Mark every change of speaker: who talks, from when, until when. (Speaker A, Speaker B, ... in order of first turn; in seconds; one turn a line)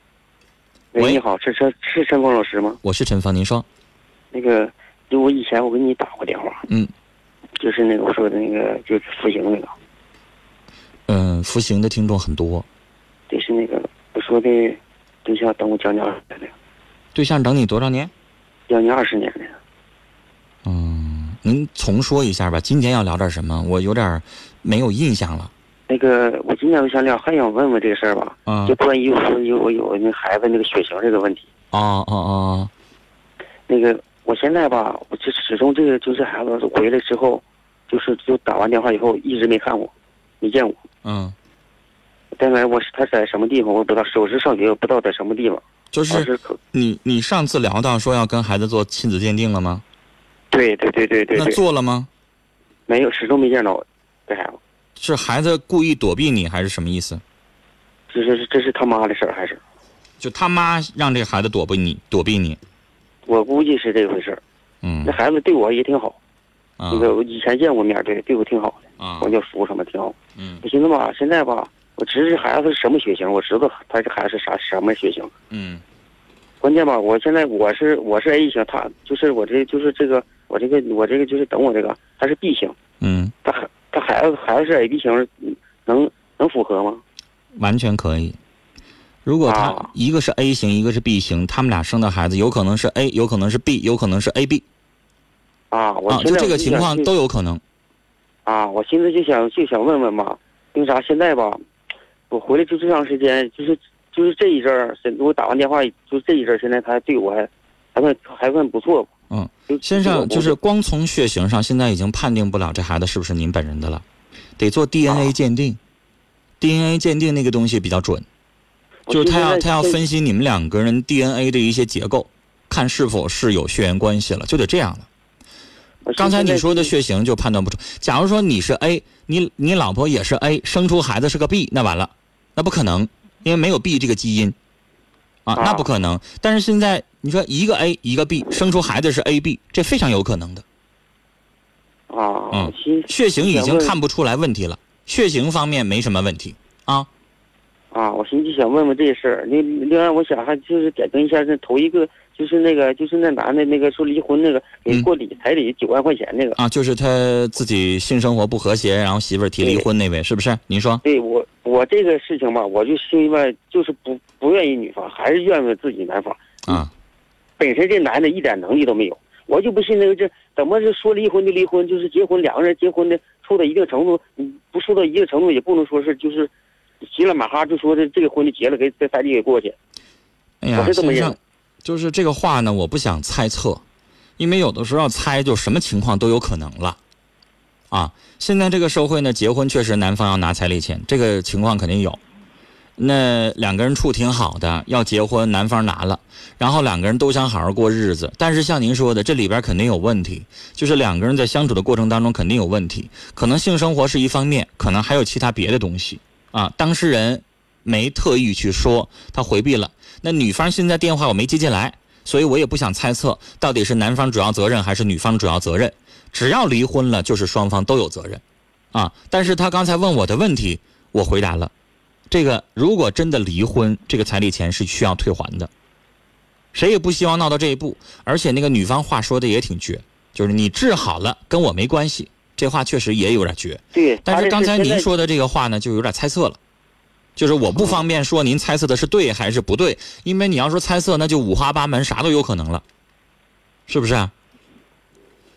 Speaker A: 0.9-2.8
Speaker B: 2.8-3.6
Speaker A: 4.3-6.6
Speaker A: 7.6-9.7
Speaker B: 11.1-12.7
Speaker A: 13.3-16.5
Speaker B: 17.1-18.1
Speaker A: 18.7-19.6
Speaker B: 20.6-25.5
Speaker A: 25.9-31.5
Speaker B: 28.5-28.7
Speaker B: 31.7-32.7
Speaker A: 33.7-40.8
Speaker B: 41.0-41.3
Speaker A: 42.4-46.5
Speaker B: 45.9-49.8
Speaker A: 50.5-51.6
Speaker B: 51.3-52.1
Speaker A: 52.9-54.6
Speaker B: 55.0-57.2
Speaker A: 58.1-59.6
Speaker B: 60.2-62.6
Speaker A: 63.2-64.4
Speaker B: 64.8-65.2
Speaker A: 65.0-66.2
Speaker B: 66.8-67.1
Speaker A: 66.9-75.3
Speaker B: 69.0-69.3
Speaker B: 70.3-70.6
Speaker B: 75.5-75.8
Speaker A: 76.6-82.8
Speaker B: 83.0-83.3
Speaker A: 83.4-87.0
Speaker B: 87.5-88.4
Speaker B: 89.2-94.6
Speaker A: 89.4-89.9
Speaker A: 95.7-97.1
Speaker B: 96.1-97.6
Speaker A: 98.5-101.6
Speaker A: 102.3-109.1
Speaker B: 109.3-114.0
Speaker A: 109.7-110.5
Speaker B: 114.6-115.8
Speaker B: 116.6-118.2
Speaker A: 119.1-120.0
Speaker B: 119.1-125.1
Speaker A: 126.0-126.9
Speaker B: 126.2-134.5
Speaker B: 135.4-140.6
Speaker A: 135.6-135.9
Speaker A: 142.1-144.0
Speaker B: 142.5-147.1
Speaker A: 147.9-156.6
Speaker B: 156.6-161.0
Speaker A: 159.6-159.9
Speaker A: 161.0-166.8
Speaker A: 167.6-176.5
Speaker A: 177.1-179.8
Speaker B: 180.6-183.8
Speaker A: 180.7-181.3
Speaker B: 184.4-187.0
Speaker B: 187.9-192.2
Speaker B: 193.0-218.4
Speaker B: 218.9-221.7
Speaker B: 222.3-225.7
Speaker B: 226.7-236.6
Speaker A: 233.9-235.1
Speaker B: 237.4-242.8
Speaker B: 243.9-244.3